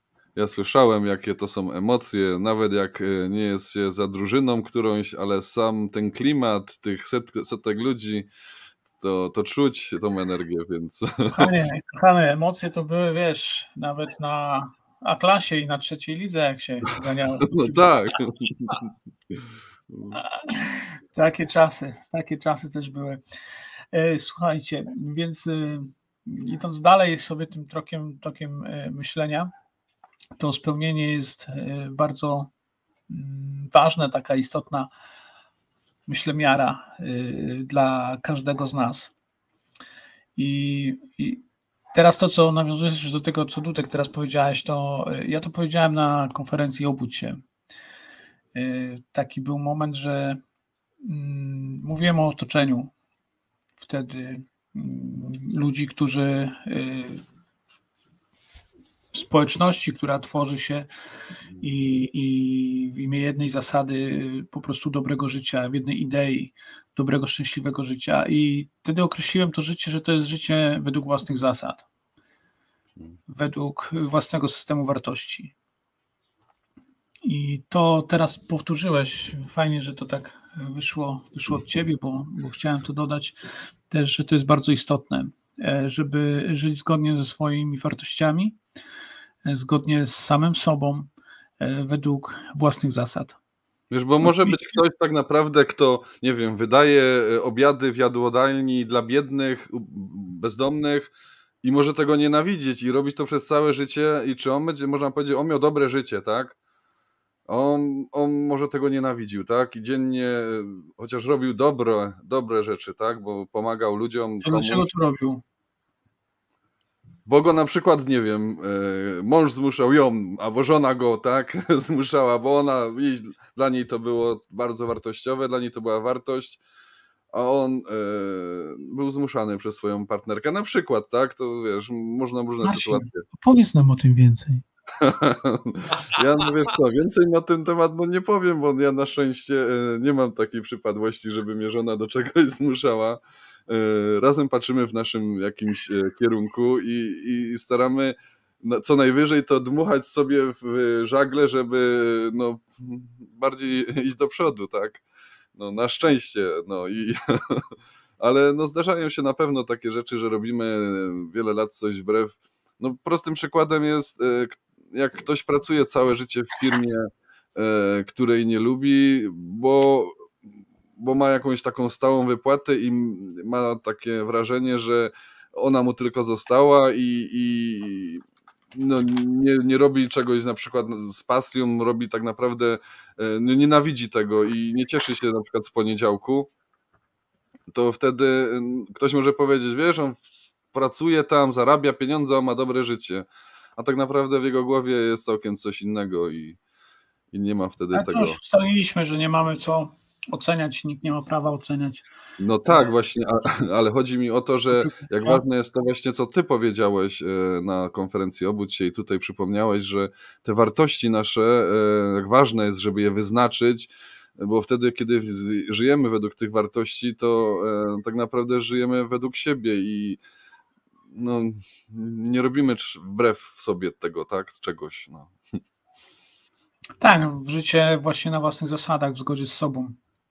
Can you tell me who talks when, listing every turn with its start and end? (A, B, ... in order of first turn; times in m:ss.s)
0:00.4-0:08.3 A
0:08.9-0:11.5 A
0:11.3-0:18.0 B
0:17.5-0:20.2 A
0:20.1-0:23.2 B
0:23.9-0:29.5 B
0:30.4-0:32.5 B
0:33.1-0:34.9 B
0:36.1-0:39.1 B
0:40.4-0:47.4 B
0:48.6-0:50.4 B
0:51.0-0:52.9 B
0:53.8-0:57.2 B
0:59.1-1:00.9 B
1:01.6-1:11.9 B
1:13.3-1:15.5 B
1:17.2-1:23.4 B
1:23.9-1:28.6 B
1:29.4-1:31.1 B
1:31.6-1:33.4 B
1:33.9-1:41.1 A
1:34.2-1:34.8 B
1:41.6-1:46.6 A
1:47.5-1:54.9 A
1:54.4-1:55.4 B
1:57.3-2:06.6 A
2:07.3-2:13.2 A
2:12.6-2:14.6 B
2:15.0-2:35.0 A
2:35.6-2:50.1 A
2:51.0-3:06.5 A
3:07.7-3:16.6 A
3:17.3-3:18.4 A
3:17.9-3:22.0 B
3:22.4-3:40.2 A
3:24.8-3:25.4 B
3:41.1-3:45.3 A
3:47.0-3:50.0 B